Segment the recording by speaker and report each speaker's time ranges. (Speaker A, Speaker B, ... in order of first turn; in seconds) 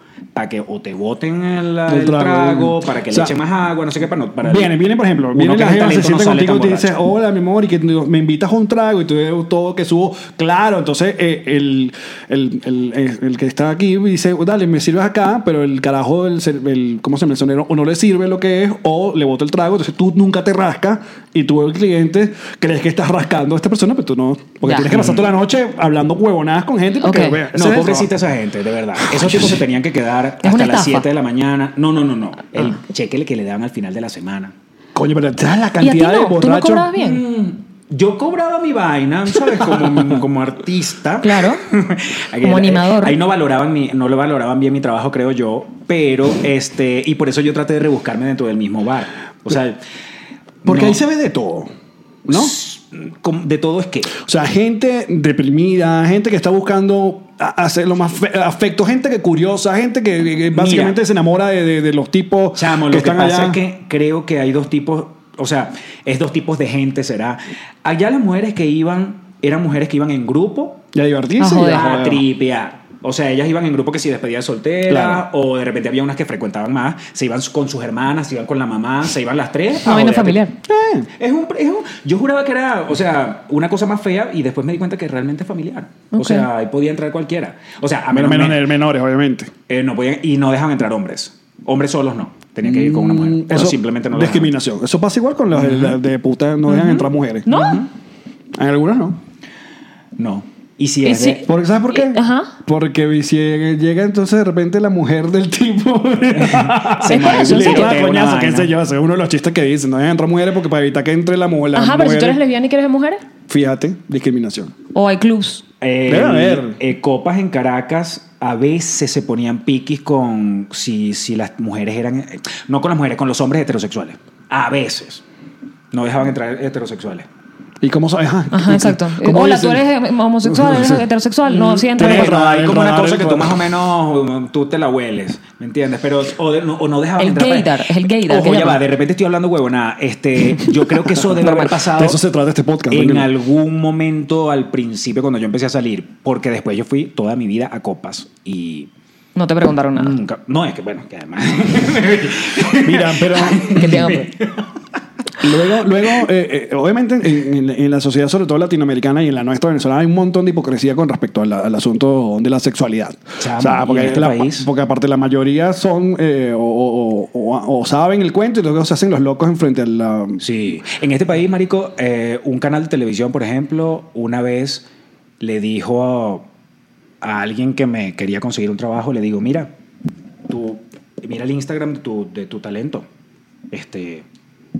Speaker A: 0.3-4.7, 5.3-7.0, 24.9-25.3, 27.5-34.5, 36.9-49.8, 50.6-51.0, 52.3-54.2, 60.5-61.0, 62.5-70.8, 71.5-80.4, 81.2-88.7, 89.7-94.5, 95.5-96.0, 96.7-97.9, 100.2-101.5, 106.3-108.7, 115.8-125.2, 125.9-127.3, 131.8-142.2, 142.9-148.9, 149.9-154.6, 163.4-164.7, 170.4-174.8, 175.4-176.4, 177.2-179.7, 180.5-183.0, 183.7-184.2
Speaker B: 1.9-3.3, 4.4-28.1, 29.0-29.6, 34.9-36.9, 39.5-40.2, 50.6-51.7, 52.3-52.5, 54.2-63.6, 70.9-72.2, 74.9-75.2, 80.7-81.1, 88.1-89.5, 92.6-97.5, 98.5-99.2, 101.5-112.4, 113.5-114.7, 116.0-116.8, 127.8-129.8, 130.4-133.6, 141.2-143.3, 152.8-154.2, 155.4-170.4
Speaker C: 24.6-24.9, 27.0-27.4, 30.4-31.0, 35.8-37.2, 41.2-41.6, 42.4-43.2, 71.4-71.8, 79.8-80.5, 86.1-86.5, 97.5-97.8, 101.0-102.5, 107.1-107.9, 111.7-113.2, 114.9-115.6, 128.5-132.3, 137.2-138.8, 149.3-150.2, 153.7-154.3